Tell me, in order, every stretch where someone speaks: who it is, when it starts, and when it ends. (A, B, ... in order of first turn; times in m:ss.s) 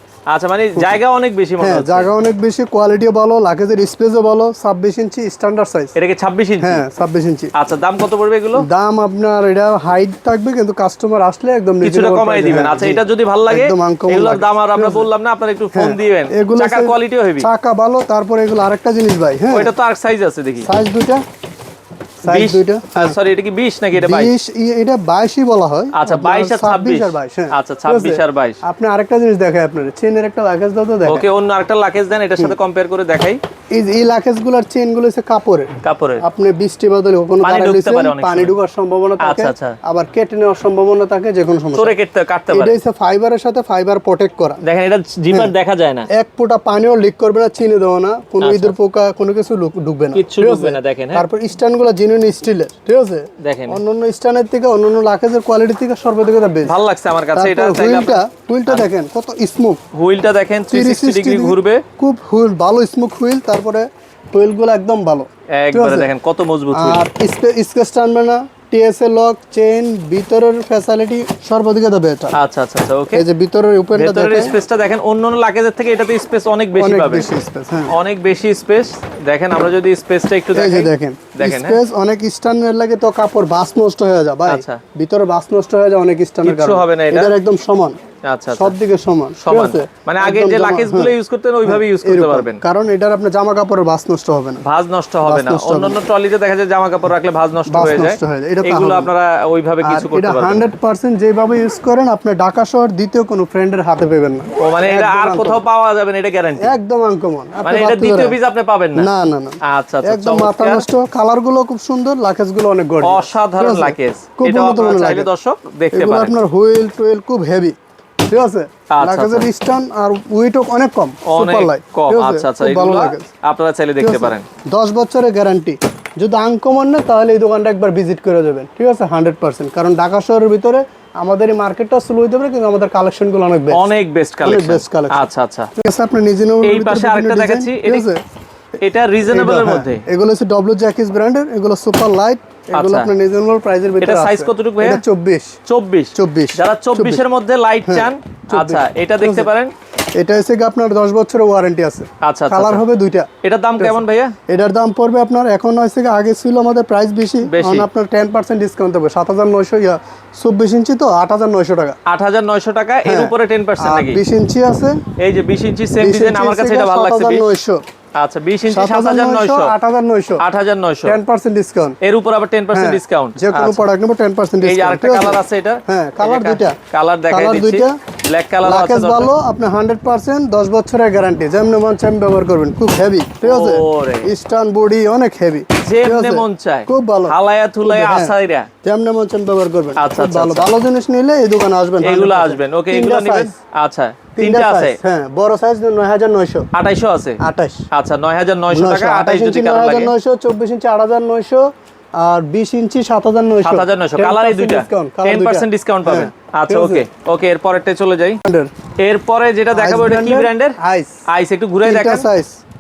0:00.3-0:02.1 A
0:01.6-0:05.9 B
0:06.0-0:06.8 A
0:06.6-0:07.5 B
0:07.6-0:08.7 A
0:08.6-0:15.1 B
0:11.8-0:17.5 A
0:15.7-0:19.7 B
0:19.5-0:20.7 A
0:20.6-0:21.2 B
0:22.2-0:23.2 B
0:22.3-0:24.3 A
0:24.0-0:31.3 B
0:25.9-0:28.6 A
0:31.1-0:33.4 A
0:33.7-0:42.0 B
0:35.8-0:36.2 A
0:37.4-0:38.5 A
0:39.2-0:39.8 A
0:41.8-0:42.8 A
0:42.5-0:44.6 B
0:44.6-0:46.1 A
0:46.1-0:56.8 B
0:48.4-0:48.8 A
0:50.1-0:51.2 A
0:53.4-0:53.8 A
0:56.7-0:58.9 A
0:57.3-0:59.8 B
0:59.9-1:01.8 A
1:00.7-1:06.1 B
1:05.5-1:07.0 A
1:06.7-1:12.4 B
1:12.4-1:13.2 A
1:13.1-1:14.6 B
1:14.0-1:17.3 A
1:16.7-1:18.0 B
1:17.9-1:21.8 A
1:20.5-1:28.0 B
1:24.5-1:24.8 A
1:26.4-1:27.3 A
1:28.2-1:28.7 A
1:28.5-1:34.6 B
1:29.4-1:32.6 A
1:34.6-1:40.7 A
1:35.2-1:36.0 B
1:37.7-1:39.1 B
1:39.8-1:45.6 B
1:44.6-1:46.8 A
1:46.6-1:48.4 B
1:47.6-1:49.1 A
1:49.0-1:55.3 B
1:49.6-1:50.9 A
1:53.0-1:56.4 A
1:55.9-2:03.3 B
1:58.9-1:59.5 A
2:01.2-2:04.4 A
2:04.0-2:13.9 B
2:13.7-2:15.7 A
2:14.4-2:15.2 B
2:15.8-2:18.2 B
2:16.6-2:18.1 A
2:18.8-2:20.0 A
2:19.3-2:25.5 B
2:22.8-2:23.1 A
2:24.0-2:25.0 A
2:25.7-2:29.7 A
2:26.2-2:27.2 B
2:27.8-2:29.5 B
2:30.2-2:42.0 B
2:32.2-2:32.8 A
2:33.4-2:34.3 A
2:37.5-2:37.9 A
2:42.1-2:44.2 A
2:43.0-2:45.0 B
2:45.2-2:47.5 A
2:46.0-2:47.8 B
2:48.2-2:49.7 A
2:48.7-2:50.4 B
2:50.4-2:51.2 A
2:51.0-2:52.0 B
2:52.0-2:53.8 A
2:52.7-2:56.8 B
2:54.6-2:59.3 A
2:57.3-2:58.0 B
2:58.6-3:13.5 B
3:03.4-3:04.3 A
3:05.8-3:08.7 A
3:10.0-3:10.7 A
3:12.0-3:15.0 A
3:14.4-3:16.7 B
3:16.7-3:17.4 A
3:17.4-3:17.9 B
3:17.9-3:20.1 A
3:18.7-3:21.7 B
3:22.2-3:27.1 B
3:23.6-3:28.4 A
3:28.5-3:28.7 B
3:29.0-3:32.3 A
3:29.7-3:31.1 B
3:31.8-3:32.6 B